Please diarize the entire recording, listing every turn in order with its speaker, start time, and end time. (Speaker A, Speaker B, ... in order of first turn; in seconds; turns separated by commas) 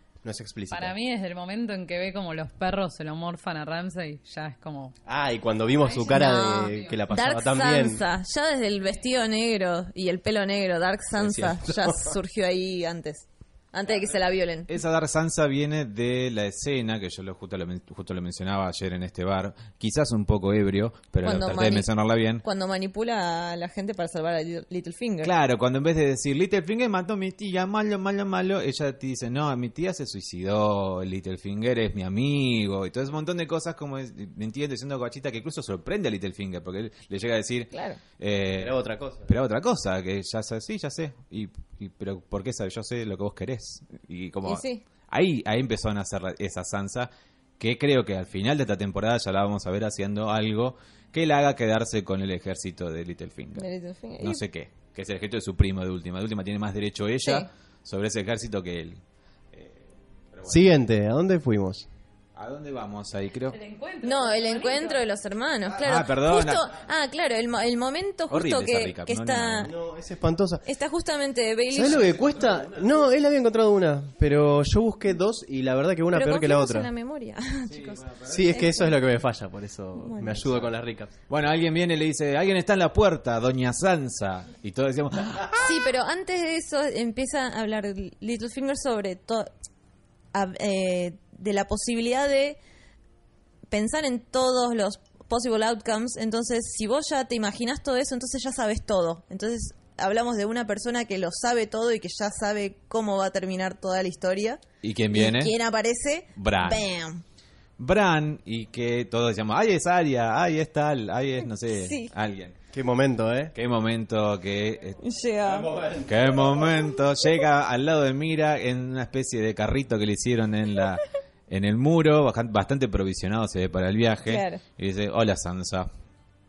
Speaker A: 0.2-0.9, Speaker B: 0.7-4.9, Speaker A: 5.1-8.0, Speaker B: 5.8-6.1, Speaker C: 6.1-14.7, Speaker B: 6.7-7.0, Speaker A: 11.3-12.1, Speaker D: 14.7-22.4, Speaker C: 21.2-21.9, Speaker C: 22.4-25.3, Speaker D: 25.2-53.6, Speaker C: 37.7-38.0, Speaker A: 38.5-39.3, Speaker C: 44.4-44.8, Speaker C: 53.5-54.4, Speaker D: 54.2-59.0, Speaker C: 57.2-57.5, Speaker D: 59.5-60.6, Speaker A: 60.5-61.9, Speaker D: 62.4-63.6, Speaker B: 63.5-65.0, Speaker C: 64.0-69.7, Speaker D: 65.7-66.7, Speaker D: 68.3-69.7, Speaker A: 69.6-70.6, Speaker C: 70.6-72.1, Speaker A: 71.7-76.9, Speaker D: 71.9-72.8, Speaker C: 76.1-79.0, Speaker D: 77.7-78.6, Speaker A: 78.3-81.1, Speaker C: 80.0-80.4, Speaker D: 81.3-85.9, Speaker C: 85.6-89.5, Speaker C: 90.3-92.6, Speaker C: 93.7-107.2, Speaker D: 104.8-105.6, Speaker D: 106.4-106.9, Speaker D: 107.8-112.6, Speaker C: 111.7-112.1, Speaker A: 112.7-113.5, Speaker D: 113.5-115.0, Speaker C: 115.0-115.7, Speaker A: 115.4-116.7, Speaker D: 116.0-125.9, Speaker C: 124.2-124.6